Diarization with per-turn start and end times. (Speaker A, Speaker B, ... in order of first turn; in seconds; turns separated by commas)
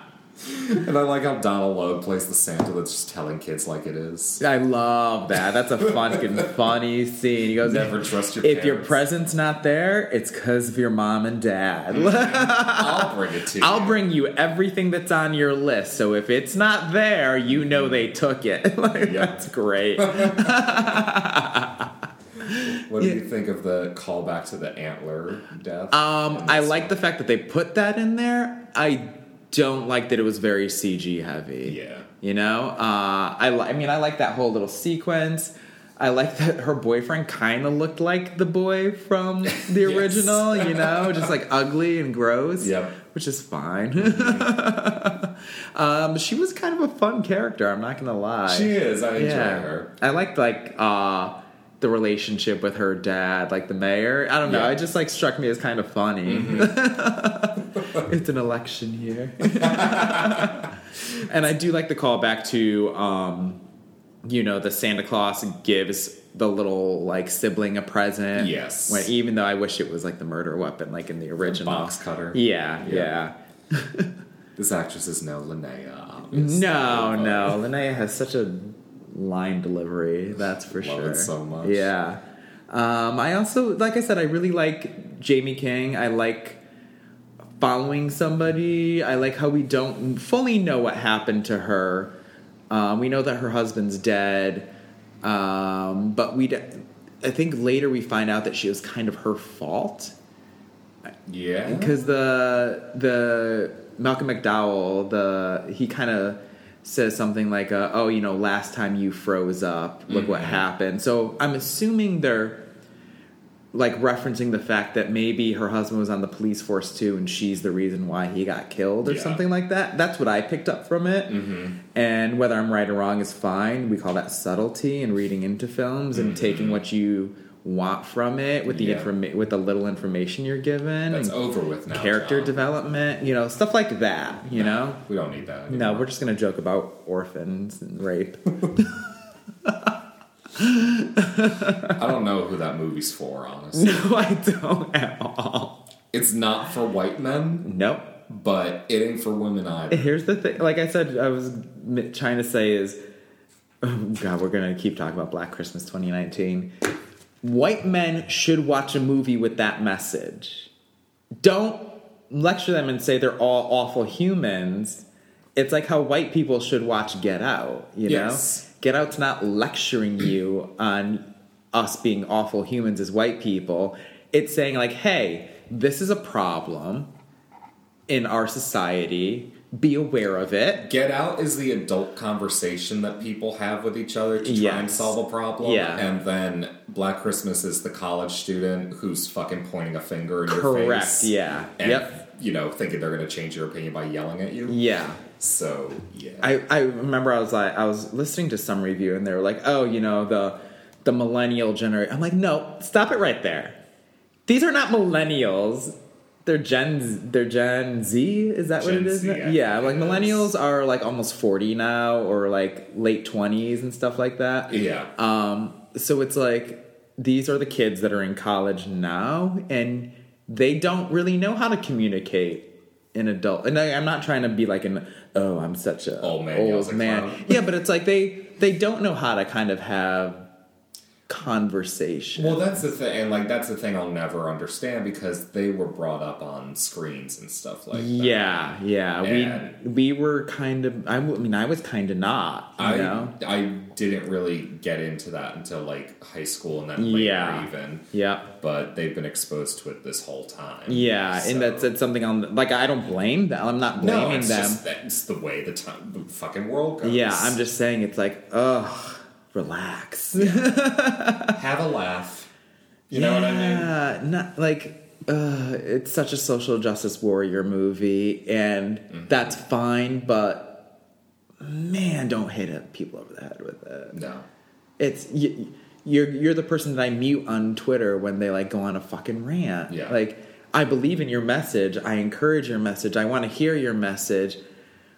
Speaker A: 0.4-4.4, Speaker B: 4.4-23.2, Speaker A: 7.6-9.0, Speaker A: 11.9-14.0, Speaker A: 19.0-19.4, Speaker A: 20.0-21.1, Speaker A: 22.7-26.9, Speaker B: 25.9-63.6, Speaker A: 31.6-32.1, Speaker A: 39.5-41.2, Speaker A: 42.6-42.9, Speaker A: 44.0-44.5, Speaker A: 48.5-49.9, Speaker A: 54.4-54.7, Speaker A: 56.3-56.8, Speaker A: 59.6-60.6, Speaker B: 64.2-74.1, Speaker A: 68.3-69.1, Speaker A: 71.4-73.1, Speaker A: 74.5-77.6, Speaker B: 76.3-86.6, Speaker A: 80.7-81.9, Speaker B: 87.6-92.1, Speaker B: 92.7-94.7, Speaker B: 95.2-100.1, Speaker A: 101.3-102.0, Speaker B: 101.6-112.7, Speaker A: 110.1-110.6, Speaker B: 113.7-131.3, Speaker A: 119.0-119.4, Speaker A: 121.3-121.8, Speaker A: 126.1-126.8, Speaker A: 128.7-129.1, Speaker A: 131.1-132.6, Speaker B: 131.9-135.0, Speaker A: 134.5-136.1, Speaker B: 135.7-139.1, Speaker B: 139.6-139.9, Speaker B: 140.6-141.9, Speaker A: 141.9-144.1, Speaker B: 143.7-145.8, Speaker A: 146.1-147.7, Speaker B: 147.6-148.2, Speaker A: 148.3-150.1, Speaker B: 149.9-153.0, Speaker B: 153.8-156.7, Speaker B: 157.4-160.7, Speaker B: 161.4-165.0, Speaker B: 165.6-177.1, Speaker A: 168.1-168.6, Speaker B: 178.1-180.8, Speaker A: 180.7-194.8, Speaker B: 184.4-186.1, Speaker B: 190.4-192.1, Speaker B: 194.7-195.2, Speaker A: 195.3-196.5, Speaker B: 196.4-203.8, Speaker B: 204.5-205.9, Speaker B: 206.4-230.5, Speaker A: 208.8-210.5, Speaker A: 214.7-215.1, Speaker A: 226.2-227.6, Speaker B: 231.3-232.8, Speaker A: 232.3-238.7, Speaker B: 237.9-243.3, Speaker A: 239.2-239.7, Speaker A: 242.8-248.1, Speaker B: 246.9-248.5, Speaker A: 248.6-251.9, Speaker B: 250.9-254.8, Speaker A: 254.0-257.6, Speaker B: 257.0-261.6, Speaker A: 260.4-260.8, Speaker A: 261.5-262.5, Speaker A: 263.1-263.9, Speaker B: 263.1-270.9, Speaker A: 269.1-269.5, Speaker B: 271.6-274.2, Speaker A: 274.1-274.4, Speaker B: 275.0-284.6, Speaker A: 279.9-280.2